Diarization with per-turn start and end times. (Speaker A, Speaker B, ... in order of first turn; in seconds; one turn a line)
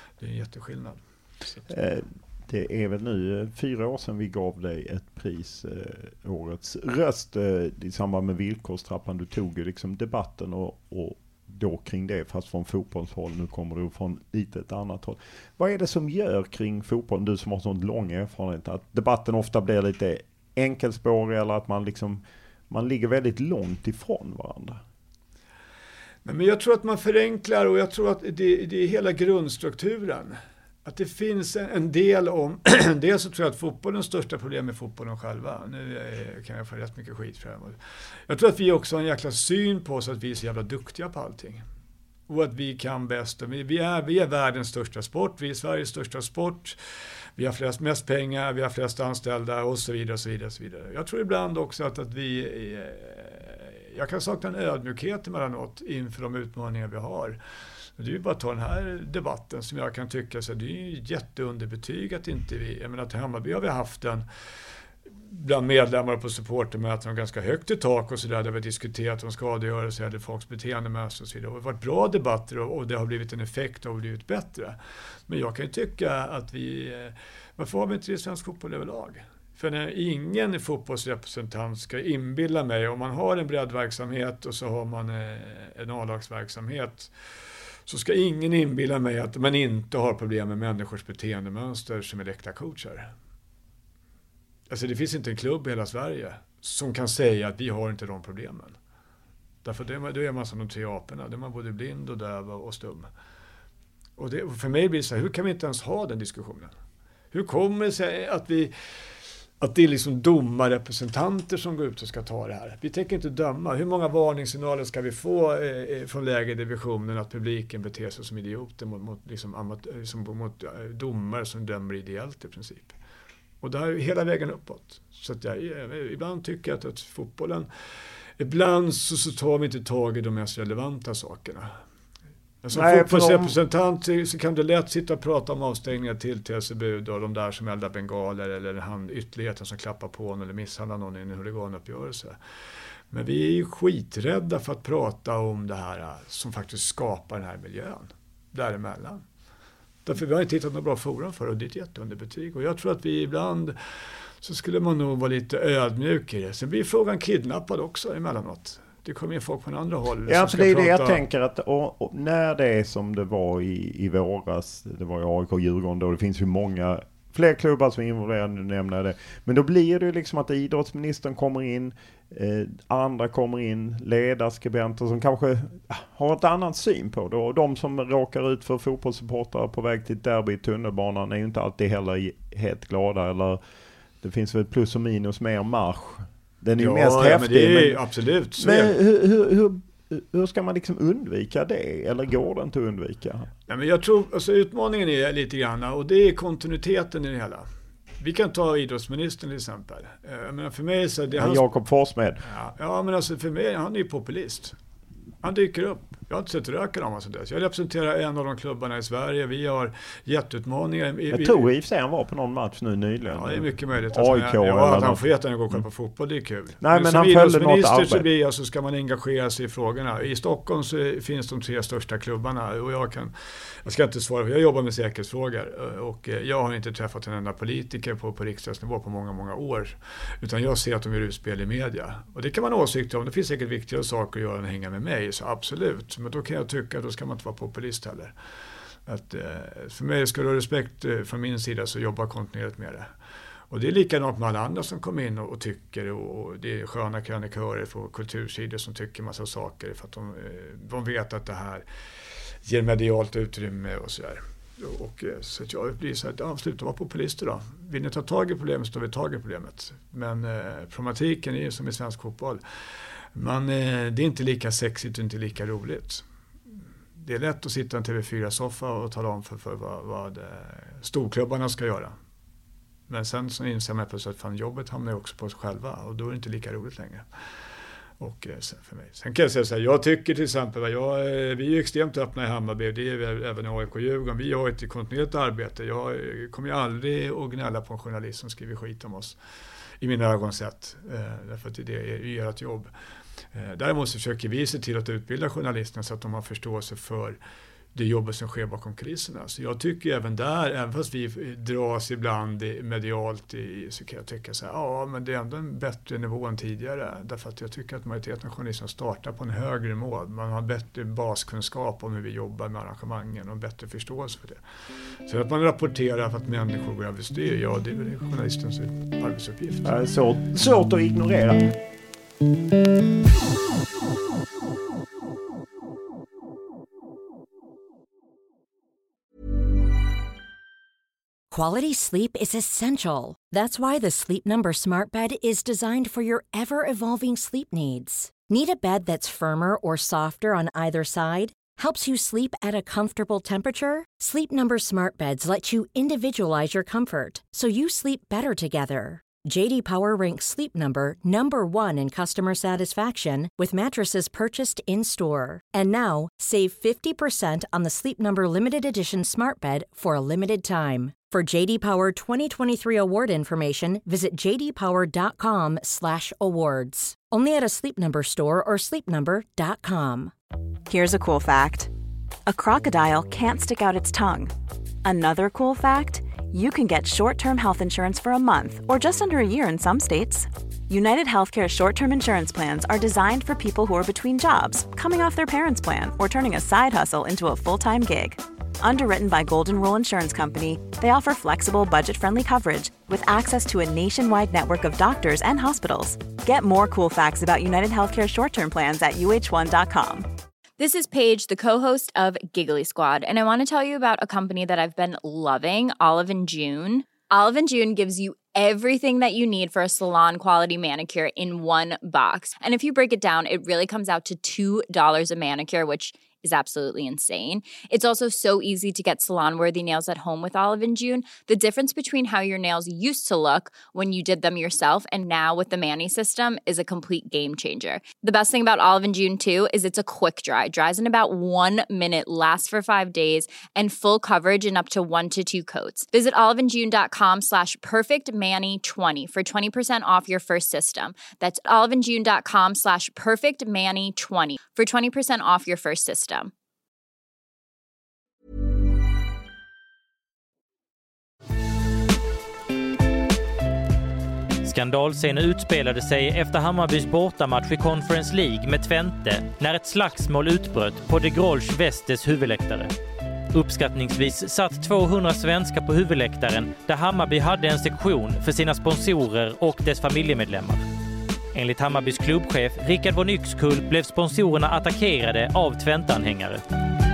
Speaker A: 0.2-1.7
Speaker B: 1.7-24.8
Speaker A: 26.2-41.6
Speaker A: 42.3-46.8
Speaker A: 47.4-57.4
Speaker A: 58.0-64.2
Speaker A: 65.2-74.8
Speaker A: 75.3-87.1
Speaker A: 87.9-93.1
Speaker A: 94.7-98.8
Speaker A: 99.6-103.1
Speaker A: 104.2-106.7
Speaker A: 107.3-108.7
Speaker A: 109.6-123.0
Speaker A: 123.6-127.7
Speaker A: 128.4-131.8
Speaker A: 132.6-142.4
Speaker B: 132.7-133.6
Speaker A: 143.1-149.2
Speaker A: 150.1-161.2
Speaker B: 160.3-183.6
Speaker B: 184.2-188.0
Speaker A: 186.8-188.9
Speaker B: 188.6-193.5
Speaker A: 193.7-197.7
Speaker A: 198.2-201.6
Speaker B: 201.3-202.4
Speaker A: 202.4-204.7
Speaker A: 205.4-211.6
Speaker B: 211.3-215.8
Speaker A: 213.3-238.3
Speaker B: 216.8-218.3
Speaker A: 239.1-243.1
Speaker A: 243.7-251.8
Speaker A: 252.6-266.2
Speaker A: 267.2-272.1
Speaker A: 273.1-277.3
Speaker A: 278.2-289.4
Speaker A: 290.0-292.9
Speaker A: 293.5-297.4
Speaker A: 297.9-314.6
Speaker A: 315.3-320.0
Speaker B: 319.8-321.7
Speaker C: 331.5-370.3
Speaker D: 370.9-371.9
Speaker D: 372.5-374.5
Speaker D: 375.0-400.3
Speaker E: 400.8-446.5
Speaker F: 454.6-462.9
Speaker F: 463.5-470.9
Speaker F: 471.5-476.6